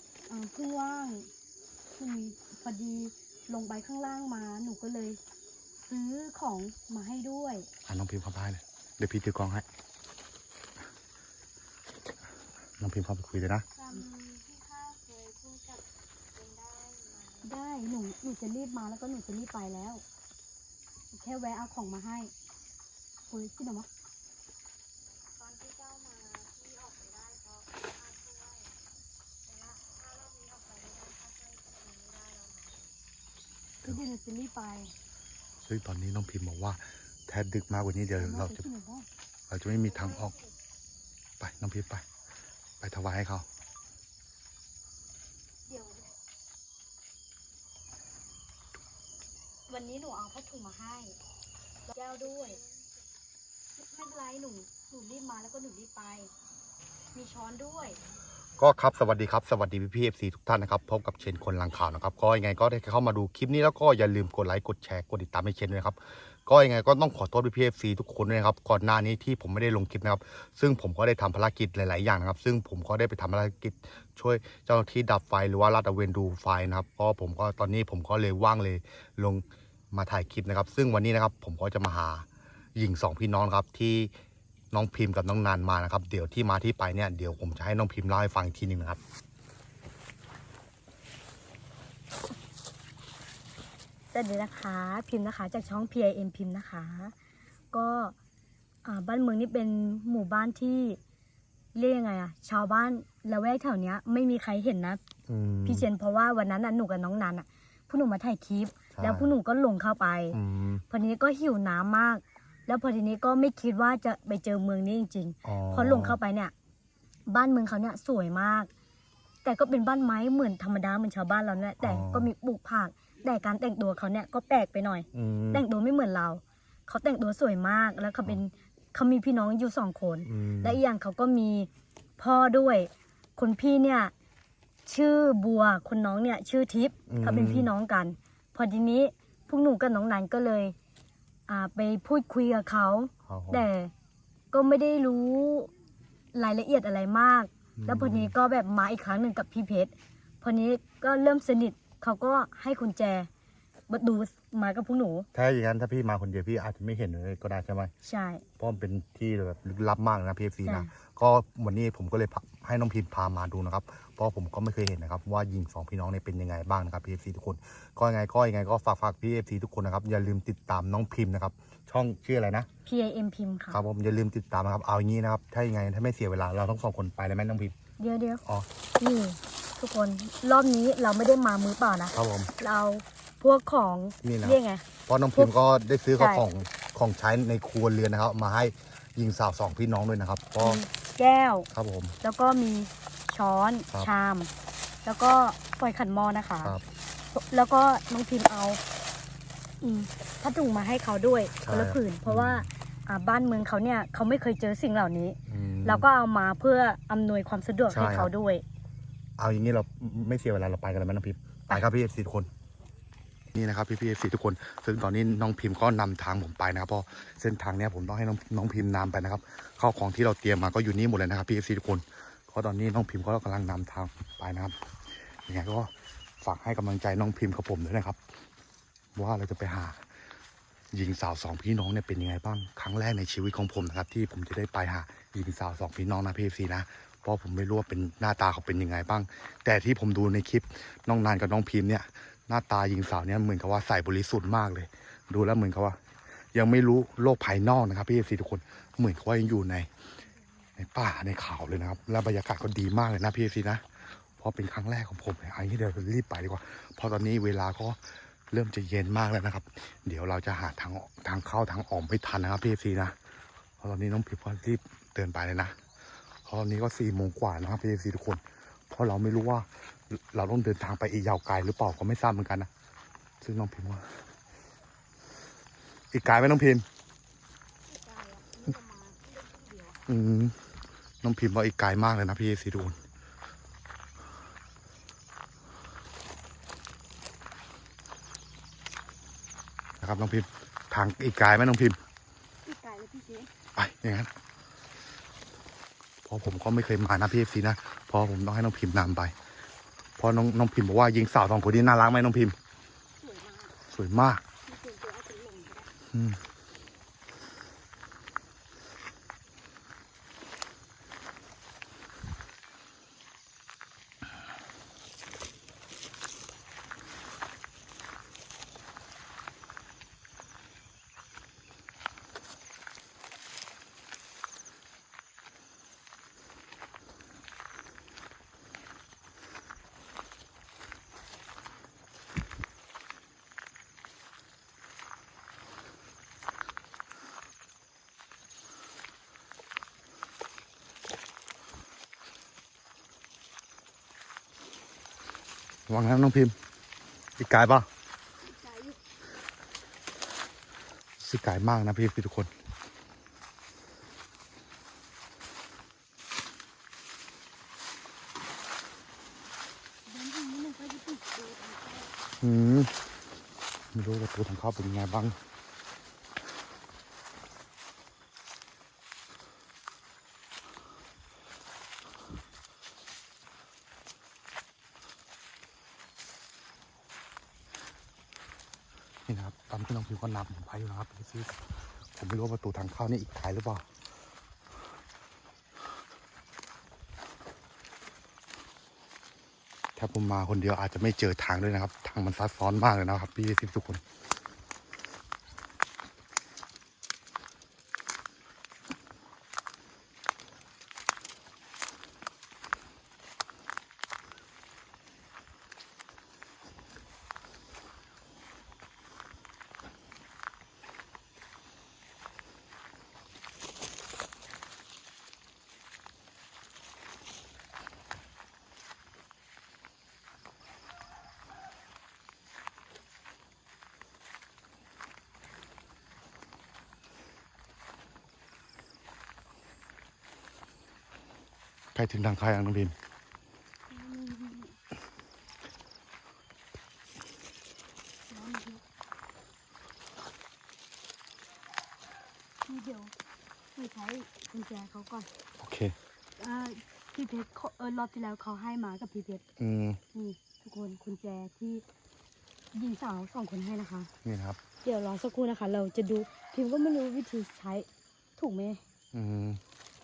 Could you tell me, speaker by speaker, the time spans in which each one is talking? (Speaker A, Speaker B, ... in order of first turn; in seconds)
Speaker A: 0.3-1.3, 2.0-5.2, 5.8-7.7, 17.4-20.0, 21.1-22.3, 23.3-23.9, 33.8-34.9, 38.2-39.1, 45.7-46.0, 49.7-51.2, 51.9-52.6, 53.8-56.3, 57.1-58.0, 94.1-97.1, 97.7-98.1, 98.8-101.0, 101.7-105.0, 105.7-110.4, 110.9-116.5, 117.3-118.7, 119.4-134.1, 134.8-140.8, 141.5-143.9, 144.5-145.7, 146.3-153.3, 153.9-155.3, 158.0-158.4, 160.7-160.9, 172.8-173.8, 178.0-178.4, 179.0-185.5, 186.2-186.4, 190.6-191.7, 192.2-194.5, 195.0-196.8, 197.3-198.8, 199.8-208.6, 278.0-279.6, 292.6-293.5, 303.2-303.8, 304.6-305.9, 348.4-349.0, 360.1-362.1, 433.9-434.8, 438.3-438.8, 442.6-443.1, 443.8-445.3, 446.4-449.4, 450.1-451.8, 452.7-454.1, 454.8-458.8
Speaker B: 7.8-9.6, 12.8-13.7, 35.7-38.6, 39.5-40.3, 41.4-42.0, 42.8-43.5, 58.6-84.1, 84.7-89.0, 105.3-105.9, 108.9-109.3, 110.3-110.8, 115.4-116.2, 121.8-122.3, 125.1-125.6, 130.2-130.8, 137.1-137.7, 143.2-143.7, 147.8-148.3, 155.3-157.9, 158.6-172.7, 173.7-177.8, 182.1-182.5, 184.2-190.8, 191.7-192.2, 201.6-202.7, 205.5-206.1, 207.9-208.3, 209.4-212.5, 213.5-224.8, 225.4-228.2, 229.2-230.1, 230.9-246.0, 246.5-249.9, 250.8-253.9, 254.4-263.1, 263.8-265.8, 266.4-272.7, 273.4-274.2, 276.1-276.8, 280.1-280.6, 281.2-283.0, 290.0-292.0, 293.8-294.3, 296.2-299.4, 300.2-302.6, 303.9-304.4, 306.1-306.4, 345.9-346.6, 347.4-347.9, 351.2-352.5, 362.4-362.9, 363.9-365.4, 379.3-383.9, 389.9-394.0, 431.9-432.9, 445.6-445.9, 449.6-450.0, 454.2-454.6, 459.1-459.6
Speaker C: 13.8-17.6, 25.4-28.8, 29.4-32.9, 39.7-40.5, 52.2-53.0, 277.9-278.2, 279.2-279.9